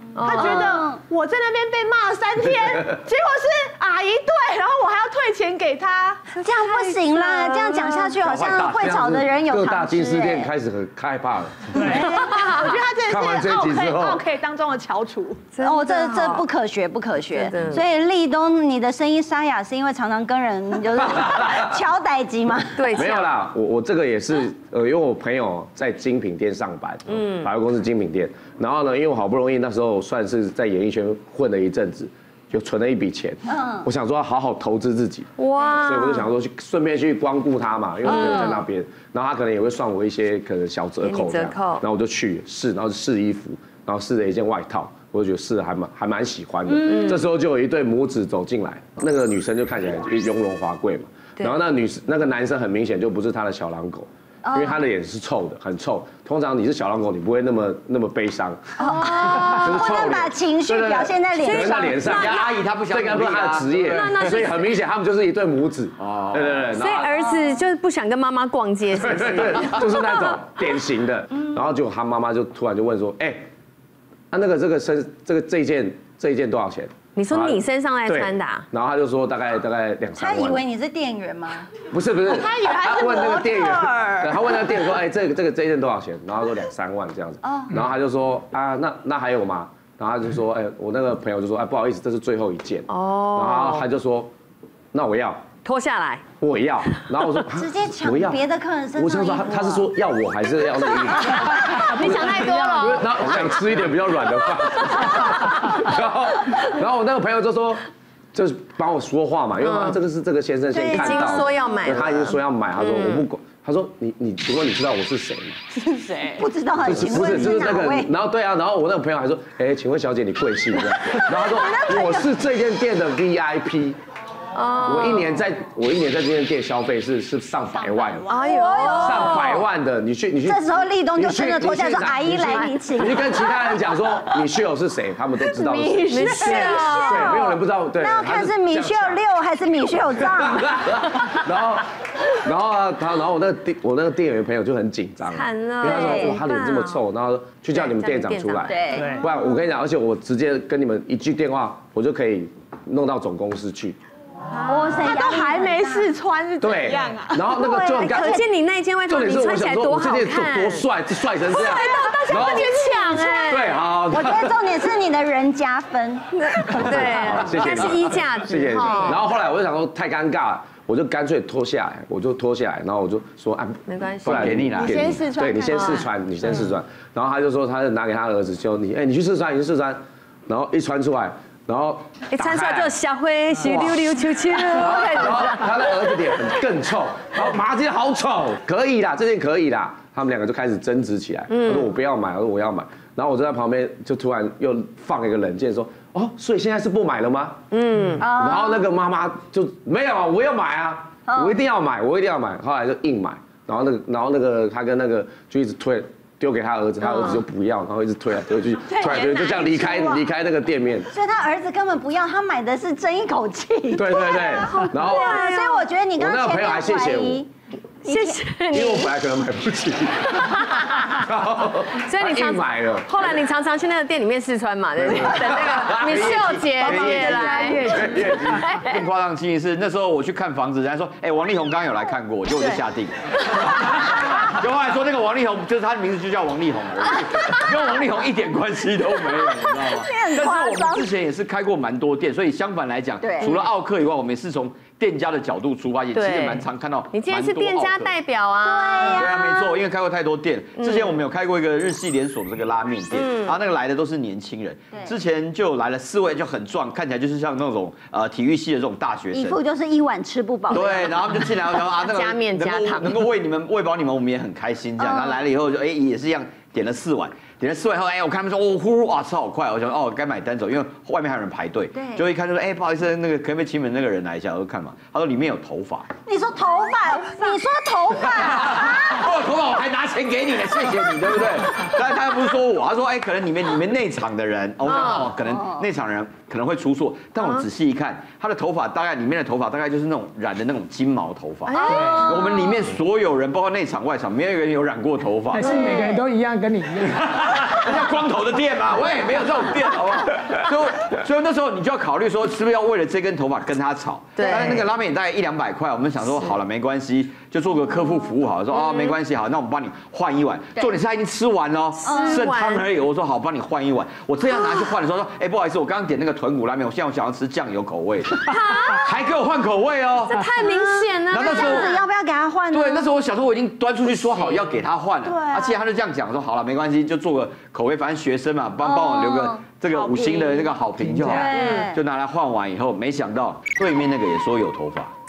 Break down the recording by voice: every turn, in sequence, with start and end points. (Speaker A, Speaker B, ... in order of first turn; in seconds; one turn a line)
Speaker A: 0.2-0.7
Speaker B: 0.2-6.3
Speaker C: 0.3-1.0
Speaker A: 6.3-8.2
Speaker C: 6.4-10.5
Speaker D: 8.2-9.0
Speaker E: 8.7-12.0
Speaker C: 11.8-12.3
Speaker B: 11.8-15.5
Speaker A: 12.1-12.7
Speaker E: 13.1-14.2
Speaker A: 15.5-16.5
Speaker C: 15.6-23.0
Speaker A: 17.3-17.8
Speaker E: 21.1-21.6
Speaker A: 22.8-23.3
Speaker E: 22.9-67.3
Speaker A: 27.1-27.5
Speaker C: 33.5-33.9
Speaker A: 35.4-36.3
Speaker A: 38.0-38.6
Speaker C: 38.1-38.5
Speaker A: 41.0-41.8
Speaker A: 46.9-47.1
Speaker C: 54.4-54.8
Speaker C: 58.8-62.1
Speaker A: 58.9-59.8
Speaker A: 61.4-62.5
Speaker D: 62.1-64.1
Speaker A: 63.9-64.7
Speaker D: 66.0-66.8
Speaker A: 66.8-70.4
Speaker E: 68.9-73.5
Speaker E: 74.3-80.6
Speaker A: 77.2-78.7
Speaker C: 80.2-81.7
Speaker E: 81.9-94.3
Speaker B: 82.3-84.9
Speaker C: 87.4-87.8
Speaker A: 92.9-93.8
Speaker E: 94.9-95.4
Speaker A: 95.6-96.2
Speaker E: 96.4-98.4
Speaker C: 97.6-99.9
Speaker E: 99.0-115.6
Speaker A: 101.5-103.8
Speaker A: 104.8-105.9
Speaker A: 109.6-110.0
Speaker A: 110.7-113.3
Speaker B: 115.8-116.4
Speaker C: 116.3-118.1
Speaker E: 116.8-124.0
Speaker C: 121.0-122.3
Speaker A: 124.5-125.4
Speaker E: 124.8-128.3
Speaker B: 127.7-129.0
Speaker A: 128.3-129.6
Speaker C: 128.6-129.4
Speaker E: 128.9-139.2
Speaker C: 130.5-133.3
Speaker A: 132.4-133.1
Speaker C: 135.6-140.8
Speaker A: 136.1-137.4
Speaker E: 140.2-154.0
Speaker A: 145.3-147.0
Speaker C: 145.8-146.3
Speaker A: 147.7-148.8
Speaker C: 148.7-149.2
Speaker B: 154.6-157.5
Speaker C: 154.6-156.1
Speaker E: 156.6-158.4
Speaker C: 157.6-158.4
Speaker A: 158.0-160.9
Speaker E: 159.1-162.7
Speaker A: 161.4-163.8
Speaker B: 161.5-163.6
Speaker E: 163.4-164.6
Speaker C: 164.1-166.2
Speaker A: 166.3-169.2
Speaker E: 166.7-182.9
Speaker A: 173.9-174.5
Speaker D: 174.2-175.0
Speaker B: 174.6-176.0
Speaker A: 175.7-176.1
Speaker A: 182.3-186.0
Speaker E: 183.7-183.9
Speaker E: 184.7-197.6
Speaker A: 191.5-191.9
Speaker A: 197.7-198.3
Speaker C: 198.2-198.8
Speaker E: 198.3-211.1
Speaker C: 201.3-201.6
Speaker A: 207.1-207.4
Speaker C: 208.9-210.2
Speaker B: 209.0-209.3
Speaker C: 211.1-217.5
Speaker E: 213.9-215.4
Speaker A: 214.7-215.9
Speaker E: 216.2-217.4
Speaker C: 218.0-218.4
Speaker A: 218.0-219.1
Speaker E: 218.7-223.4
Speaker A: 220.7-221.1
Speaker A: 222.0-229.0
Speaker E: 225.0-228.7
Speaker D: 225.9-227.8
Speaker C: 227.1-227.9
Speaker D: 228.7-248.2
Speaker C: 232.5-232.8
Speaker C: 239.5-241.1
Speaker C: 243.2-243.6
Speaker A: 246.1-249.3
Speaker C: 248.6-249.8
Speaker D: 249.1-259.6
Speaker A: 250.8-251.2
Speaker A: 253.1-253.6
Speaker C: 259.3-261.3
Speaker D: 260.7-276.1
Speaker A: 261.9-263.2
Speaker C: 265.0-265.4
Speaker C: 271.9-272.2
Speaker C: 276.3-279.3
Speaker D: 278.4-295.8
Speaker A: 284.9-285.3
Speaker C: 285.4-285.8
Speaker A: 287.4-287.7
Speaker A: 291.7-292.7
Speaker F: 291.9-292.2
Speaker A: 295.7-296.2
Speaker F: 295.7-297.7
Speaker C: 295.8-296.1
Speaker D: 297.0-322.0
Speaker A: 304.4-304.9
Speaker A: 308.7-309.1
Speaker A: 312.0-312.9
Speaker C: 312.0-312.5
Speaker A: 318.4-319.2
Speaker A: 320.2-322.0
Speaker C: 321.3-323.1
Speaker D: 322.7-335.1
Speaker B: 325.2-325.8
Speaker C: 328.8-329.6
Speaker B: 329.9-330.8
Speaker C: 331.2-332.0
Speaker A: 331.4-331.9